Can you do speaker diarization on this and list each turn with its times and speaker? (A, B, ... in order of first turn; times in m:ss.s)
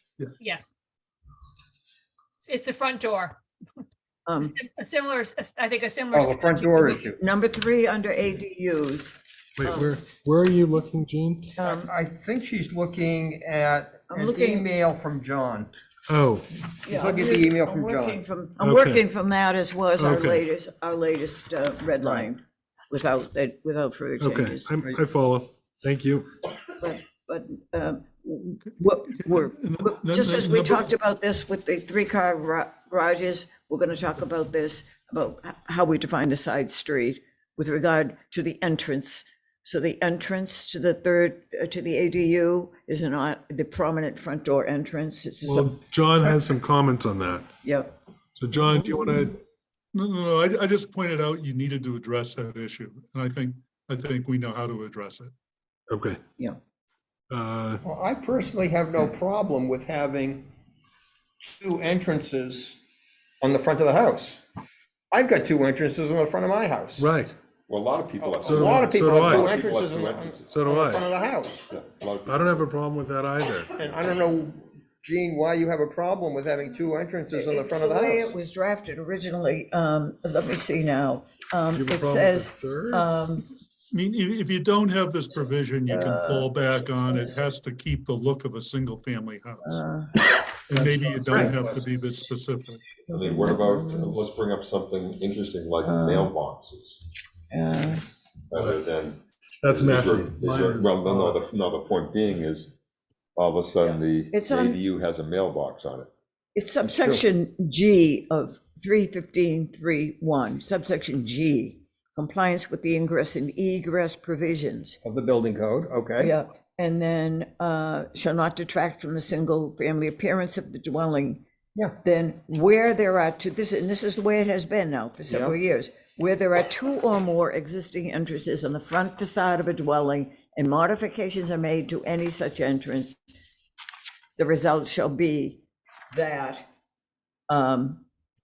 0:00.4-0:00.7 A
0:02.4-0:03.4 A
0:04.3-0:04.6 B
0:04.4-0:07.1 A
0:06.1-0:07.2 C
0:07.2-0:09.9 B
0:09.6-0:11.6 D
0:11.6-0:11.9 B
0:11.6-0:15.7 C
0:14.1-0:14.7 B
0:16.1-0:16.5 D
0:16.8-0:24.7 B
0:16.9-0:18.2 C
0:18.6-0:19.0 D
0:20.0-0:20.4 D
0:22.0-0:22.3 C
0:24.2-0:26.3 D
0:26.8-0:45.7 B
0:29.2-0:30.9 E
0:45.4-0:47.5 D
0:47.6-0:47.9 B
0:48.4-0:49.4 D
0:49.9-0:55.3 E
0:55.9-0:56.2 D
0:57.3-0:57.8 D
0:57.8-1:00.5 C
1:01.4-1:02.8 C
1:03.4-1:04.4 C
1:05.1-1:07.1 C
1:07.0-1:07.4 D
1:07.7-1:10.6 F
1:08.4-1:09.5 D
1:08.5-1:11.7 C
1:10.5-1:11.0 D
1:11.7-1:12.7 F
1:12.3-1:13.8 D
1:13.8-1:18.4 C
1:17.3-1:23.5 B
1:21.7-1:23.1 D
1:23.9-1:29.8 E
1:25.9-1:27.4 B
1:29.6-1:30.2 B
1:30.7-1:33.0 E
1:30.7-1:31.6 D
1:31.3-1:31.7 C
1:33.1-1:34.2 B
1:33.1-1:37.1 F
1:35.8-1:36.3 B
1:37.5-1:38.0 B
1:38.5-1:42.8 F
1:39.6-1:41.4 D
1:43.4-1:46.1 F
1:43.8-1:44.8 B
1:46.6-1:55.0 B
1:55.0-1:56.3 C
1:56.2-2:01.4 B
2:02.0-2:13.2 B
2:05.3-2:05.6 C
2:14.4-2:16.7 B
2:17.5-2:18.0 B